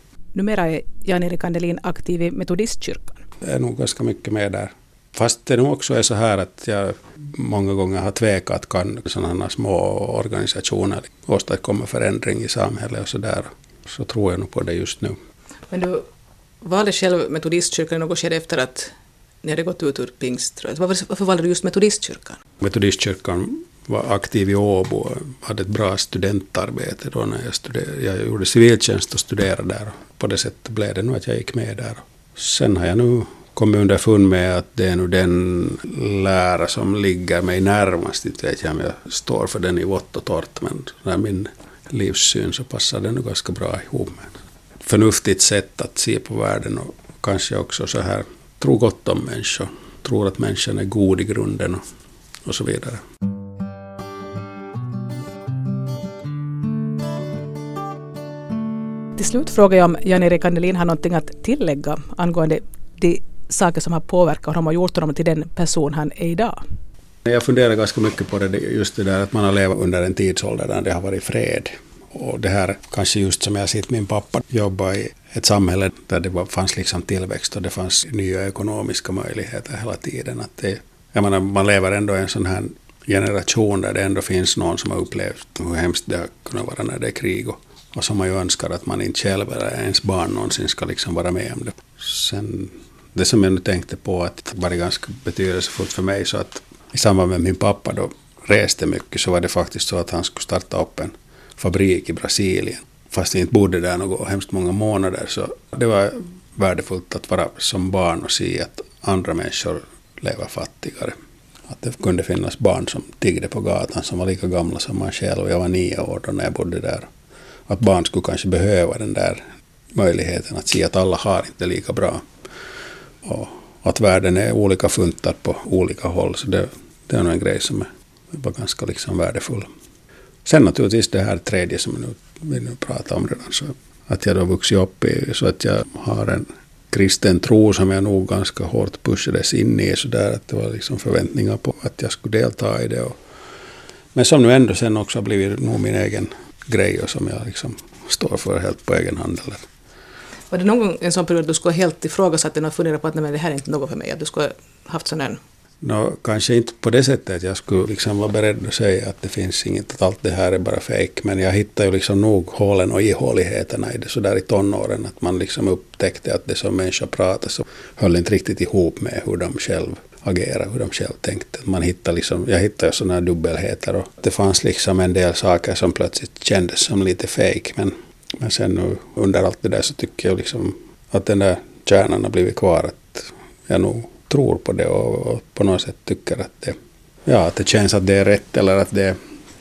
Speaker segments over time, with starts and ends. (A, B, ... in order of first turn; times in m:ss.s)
0:00.3-0:03.2 A
0:03.4-0:15.2 B
0:15.7-0:16.0 A
0:16.6-0:18.9 A
0:19.4-0:22.4 A
0:22.6-0:44.3 B
0:44.8-0:51.8 B
0:52.4-0:53.0 B
0:59.2-1:06.6 A
1:07.2-1:51.2 B
1:51.7-1:57.1 B
1:57.7-1:59.4 B
1:59.9-2:02.2 B
2:03.2-2:09.7 B
2:10.4-2:23.1 B
2:24.1-2:29.6 B
2:30.5-2:35.4 A
2:35.8-3:09.2 B